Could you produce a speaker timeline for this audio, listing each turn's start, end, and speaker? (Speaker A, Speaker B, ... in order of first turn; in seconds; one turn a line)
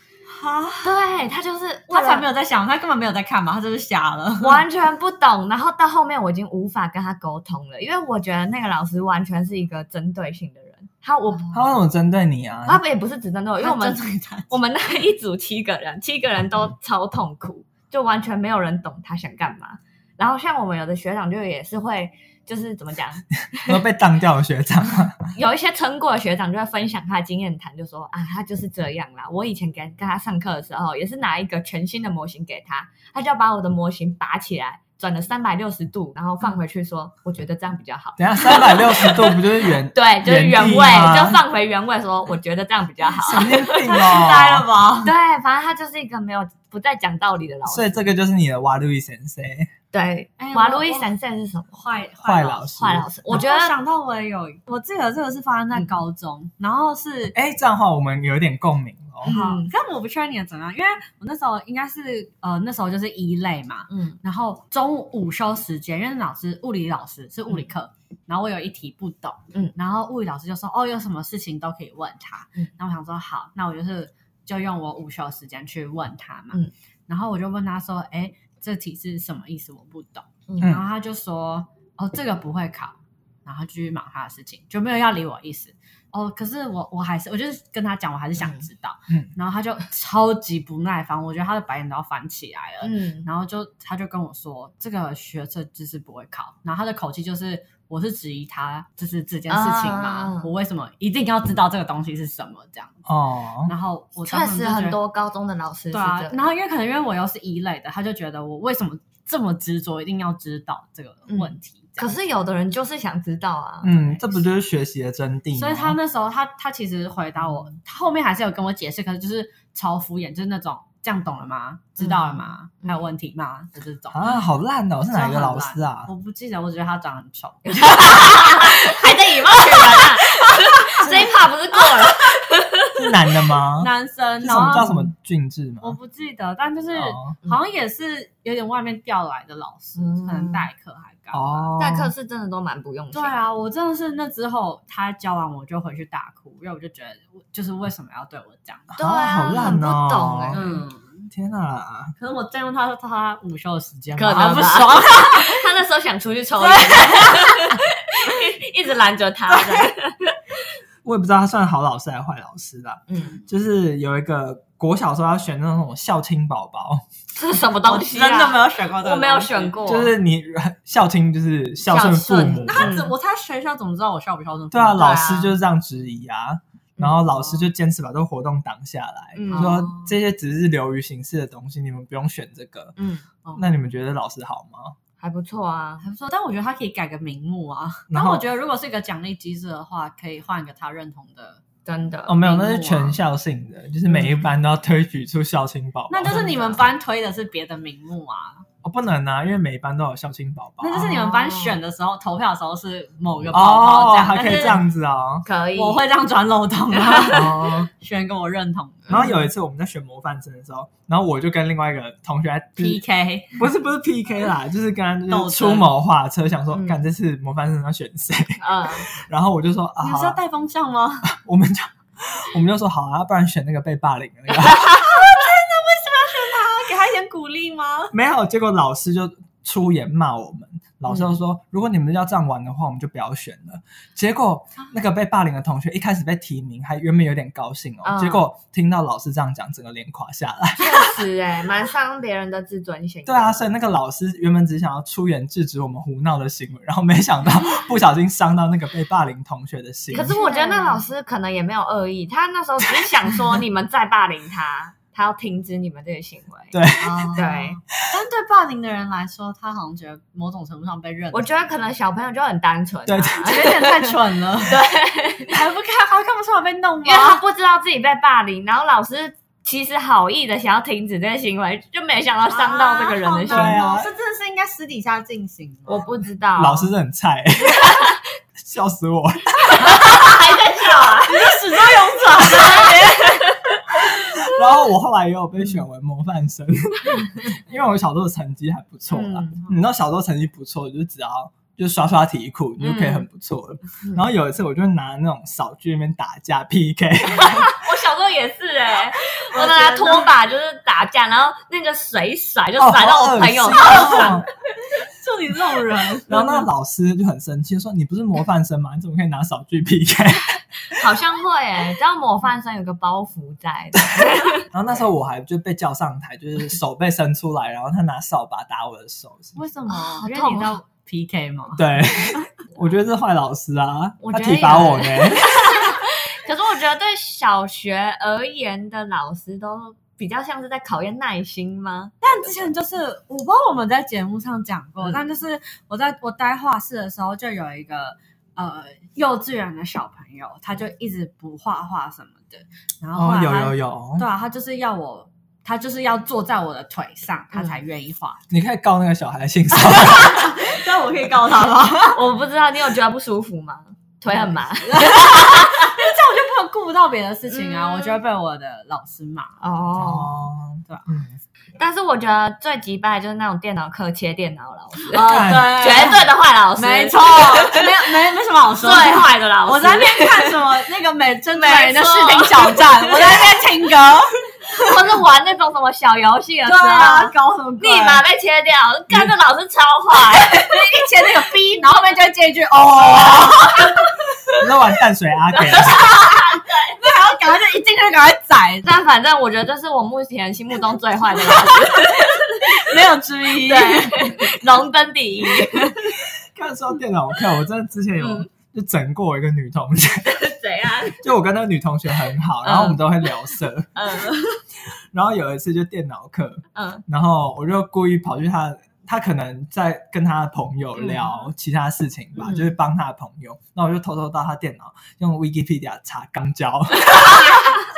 Speaker A: 0.3-0.9
Speaker B: 0.8-2.3
Speaker A: 1.9-4.6
Speaker B: 4.4-11.6
Speaker C: 11.5-12.8
Speaker B: 12.7-23.8
Speaker A: 13.6-14.5
Speaker C: 23.6-25.3
Speaker B: 25.3-44.1
Speaker C: 38.2-41.4
Speaker C: 43.2-44.7
Speaker A: 43.3-45.1
Speaker B: 45.0-48.0
Speaker C: 47.7-49.7
Speaker B: 49.9-51.8
Speaker A: 50.4-51.1
Speaker A: 51.7-52.7
Speaker C: 52.2-53.1
Speaker B: 52.7-53.7
Speaker A: 53.3-57.3
Speaker C: 57.3-59.4
Speaker B: 59.2-59.7
Speaker A: 59.2-103.1
Speaker B: 63.9-64.2
Speaker B: 80.5-80.7
Speaker C: 80.6-80.8
Speaker B: 92.8-93.3
Speaker B: 99.5-100.5
Speaker C: 103.0-103.7
Speaker A: 103.7-105.0
Speaker B: 104.2-106.4
Speaker A: 105.9-112.2
Speaker B: 111.3-114.4
Speaker C: 113.8-116.0
Speaker A: 115.5-124.3
Speaker B: 122.0-123.0
Speaker C: 124.1-126.1
Speaker A: 125.1-132.3
Speaker B: 127.7-133.0
Speaker C: 132.9-136.0
Speaker A: 133.8-135.1
Speaker A: 135.8-141.7
Speaker C: 136.9-137.3
Speaker B: 140.0-140.7
Speaker C: 141.3-142.1
Speaker B: 141.8-143.4
Speaker A: 143.1-148.9
Speaker B: 148.9-150.7
Speaker C: 149.0-150.8
Speaker A: 150.5-151.3
Speaker C: 151.3-152.1
Speaker A: 152.2-155.7
Speaker B: 154.2-160.3
Speaker A: 156.6-157.8
Speaker A: 159.5-159.9
Speaker C: 161.0-167.0
Speaker B: 163.1-163.4
Speaker B: 167.3-170.1
Speaker A: 167.8-169.8
Speaker C: 169.8-173.0
Speaker B: 171.9-173.1
Speaker A: 172.6-175.2
Speaker C: 174.7-182.9
Speaker B: 174.9-175.6
Speaker B: 177.0-177.2
Speaker B: 179.3-179.9
Speaker A: 179.5-180.1
Speaker B: 183.0-183.2
Speaker A: 183.4-183.7
Speaker C: 183.6-184.9
Speaker B: 185.2-186.0
Speaker A: 186.0-191.6
Speaker C: 188.1-188.4
Speaker B: 191.8-192.4
Speaker C: 192.3-196.8
Speaker A: 192.4-193.2
Speaker A: 196.1-198.6
Speaker C: 198.8-201.2
Speaker A: 200.8-204.8
Speaker B: 201.0-201.8
Speaker C: 203.5-205.4
Speaker B: 205.4-206.0
Speaker A: 205.7-209.2
Speaker B: 207.1-207.5
Speaker C: 207.3-207.9
Speaker C: 209.1-213.0
Speaker B: 209.1-209.4
Speaker A: 212.8-213.6
Speaker C: 213.6-220.4
Speaker A: 215.3-215.9
Speaker B: 216.7-217.0
Speaker B: 218.6-219.1
Speaker A: 220.0-221.3
Speaker C: 221.2-225.1
Speaker A: 224.7-228.1
Speaker C: 228.1-241.1
Speaker B: 238.0-238.4
Speaker B: 240.8-243.6
Speaker C: 243.2-250.4
Speaker B: 250.1-256.8
Speaker A: 250.3-251.0
Speaker C: 256.7-257.4
Speaker A: 257.0-261.6
Speaker B: 257.3-257.8
Speaker B: 261.3-264.0
Speaker C: 263.1-263.8
Speaker A: 263.4-264.8
Speaker B: 264.6-265.6
Speaker A: 265.5-267.4
Speaker B: 267.0-273.8
Speaker A: 272.5-276.1
Speaker C: 273.5-274.1
Speaker B: 275.9-276.9
Speaker C: 276.6-278.0
Speaker B: 277.7-278.1
Speaker C: 278.6-280.3
Speaker B: 279.7-283.8
Speaker A: 281.3-283.6
Speaker C: 284.0-297.8
Speaker B: 289.1-289.6
Speaker B: 292.8-293.2
Speaker B: 297.3-304.4
Speaker A: 299.5-300.3
Speaker C: 302.8-304.5
Speaker A: 303.8-304.4
Speaker A: 305.0-306.6
Speaker C: 306.3-311.0
Speaker B: 310.9-314.6
Speaker C: 314.2-319.6
Speaker A: 319.6-321.8
Speaker B: 319.9-320.8
Speaker C: 321.8-325.5
Speaker B: 324.2-332.5
Speaker A: 332.2-348.4
Speaker C: 343.1-344.3
Speaker B: 347.5-347.8
Speaker C: 348.5-350.5
Speaker A: 349.8-352.2
Speaker B: 352.1-356.0
Speaker A: 354.3-359.6
Speaker B: 357.5-358.2
Speaker B: 359.6-360.3
Speaker C: 359.9-361.4
Speaker B: 361.8-367.9
Speaker C: 365.2-365.9
Speaker A: 365.2-374.9
Speaker B: 368.8-370.6
Speaker B: 371.5-373.5
Speaker B: 374.7-381.0
Speaker A: 376.6-378.2
Speaker A: 380.4-384.0
Speaker C: 384.6-386.2
Speaker B: 385.7-387.0
Speaker A: 385.8-388.9
Speaker B: 388.8-392.9
Speaker A: 391.6-392.1
Speaker A: 392.6-394.4
Speaker B: 393.6-396.1
Speaker C: 396.3-400.3
Speaker B: 398.2-398.5
Speaker B: 400.2-401.2
Speaker C: 401.2-404.0
Speaker B: 402.6-403.2
Speaker B: 403.9-404.5
Speaker C: 405.1-417.6
Speaker B: 406.7-407.0
Speaker B: 411.0-411.4
Speaker B: 417.4-417.8